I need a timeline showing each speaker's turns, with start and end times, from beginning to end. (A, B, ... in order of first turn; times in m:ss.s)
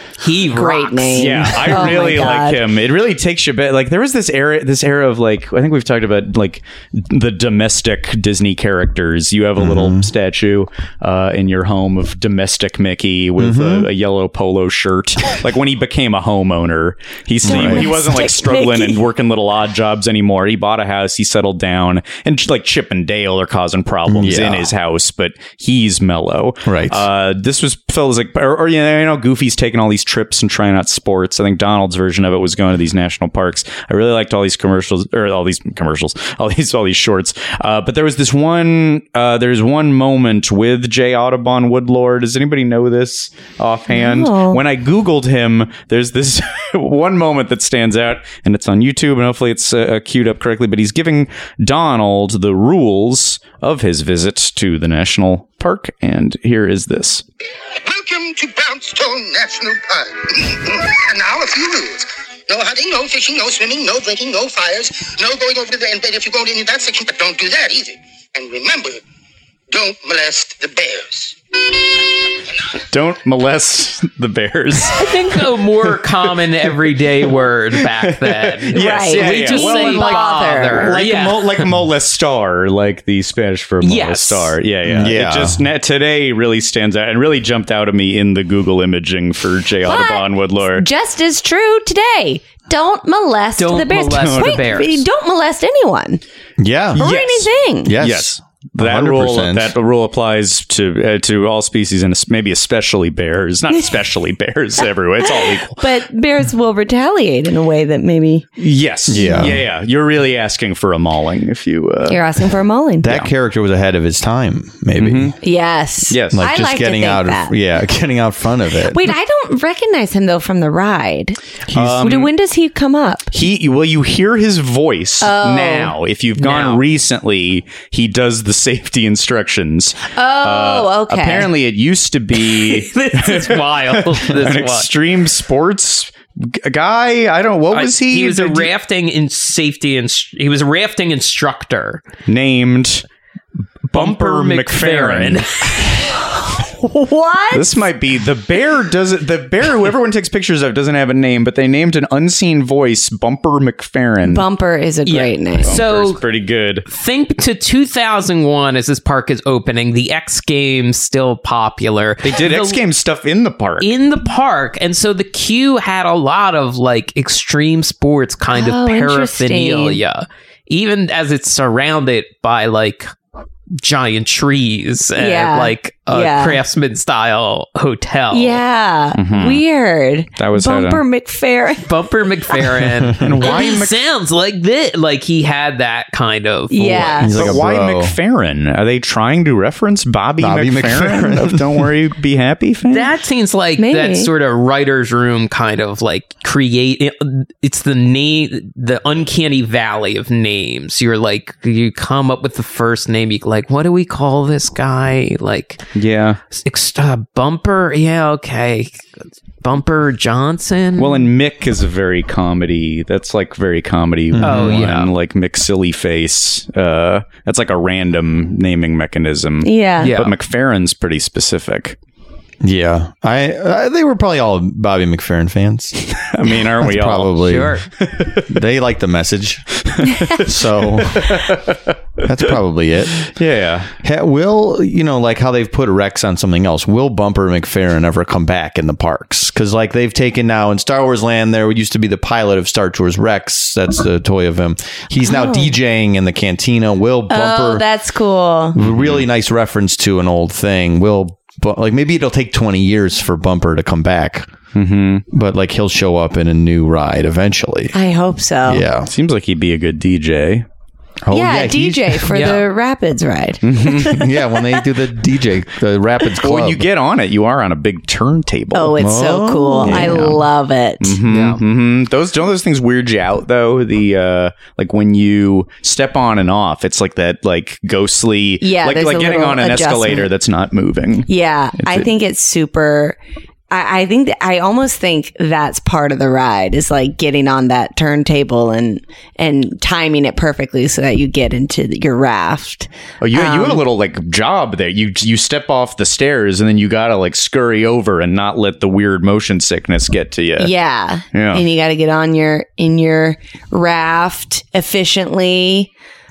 0:00.2-0:02.2 A
0:00.6-0:02.6 B
0:01.2-0:57.2 C
0:09.6-0:10.1 D
0:13.4-0:13.9 D
0:17.4-0:17.9 D
0:17.4-0:19.0 B
0:24.1-0:24.7 D
0:26.6-0:27.0 D
0:43.9-0:44.6 B
0:57.8-1:09.0 E
1:09.7-1:12.0 E
1:12.9-1:30.8 C
1:14.9-1:21.7 A
1:18.7-1:21.0 B
1:23.8-1:24.5 A
1:24.8-1:25.6 D
1:29.8-1:36.2 B
1:33.6-1:35.0 A
1:34.2-1:34.7 C
1:36.6-1:37.0 D
1:37.0-1:45.8 C
1:37.0-1:38.0 B
1:37.8-1:39.7 D
1:45.2-1:48.4 B
1:48.6-1:52.4 C
1:49.1-1:49.6 D
1:52.1-1:53.1 B
1:53.0-1:55.4 D
1:55.0-1:55.4 C
1:55.4-1:57.5 B
1:56.1-1:56.4 C
1:56.3-1:59.0 D
1:58.8-2:01.4 B
2:01.7-2:02.1 D
2:01.7-2:02.3 C
2:02.0-2:03.3 B
2:03.3-2:18.7 C
2:05.2-2:05.9 B
2:06.4-2:06.8 A
2:10.1-2:11.5 B
2:12.4-2:14.9 A
2:17.7-2:22.0 A
2:22.3-2:23.0 C
2:23.9-2:25.7 C
2:23.9-2:26.1 A
2:26.5-2:27.8 B
2:27.5-2:34.4 C
2:34.2-2:35.8 B
2:35.0-2:36.2 A
2:35.6-2:36.8 C
2:36.9-2:42.8 A
2:42.2-2:43.9 C
2:43.8-2:53.1 A
2:48.5-2:50.0 B
2:53.8-2:58.6 A
2:55.2-2:56.6 B
2:58.3-3:01.8 B
2:59.1-2:59.6 C
3:00.4-3:01.0 C
3:01.8-3:07.2 A
3:03.2-3:04.0 C
3:06.7-3:07.3 B
3:06.9-3:08.2 D
3:07.3-3:13.1 C
3:10.4-3:11.9 D
3:12.9-3:25.8 A
3:13.8-3:14.3 B
3:26.0-3:26.4 C
3:26.6-3:29.0 A
3:29.6-3:31.3 A
3:31.0-3:42.0 C
3:34.3-3:34.9 D
3:34.4-3:35.1 A
3:39.6-3:40.1 B
3:40.0-3:40.3 A
3:42.6-3:45.9 D
3:46.0-3:48.5 C
3:46.8-3:47.8 D
3:47.4-3:47.8 A
3:48.5-3:51.4 D
3:49.9-3:51.8 C
3:52.2-3:53.3 D
3:53.3-3:53.9 C
3:54.0-4:07.8 D
4:05.2-4:05.7 B
4:07.3-4:08.8 B
4:08.7-4:14.5 D
4:08.8-4:09.2 C
4:14.7-4:15.2 C
4:15.3-4:17.9 D
4:17.9-4:18.8 B
4:18.6-4:19.1 D
4:19.1-4:20.6 C
4:21.2-4:22.5 D
4:21.3-4:24.3 B
4:22.3-4:22.7 A
4:23.6-4:24.2 C
4:23.9-4:26.8 D
4:26.4-4:29.0 C
4:28.7-4:31.2 B
4:29.0-4:30.4 D
4:29.8-4:30.4 C
4:31.0-4:42.1 C
4:31.2-4:31.6 A
4:38.6-4:40.3 B
4:41.3-4:43.2 B
4:43.7-4:53.8 B
4:53.2-5:00.7 C
5:00.6-5:05.9 B
5:01.3-5:01.6 C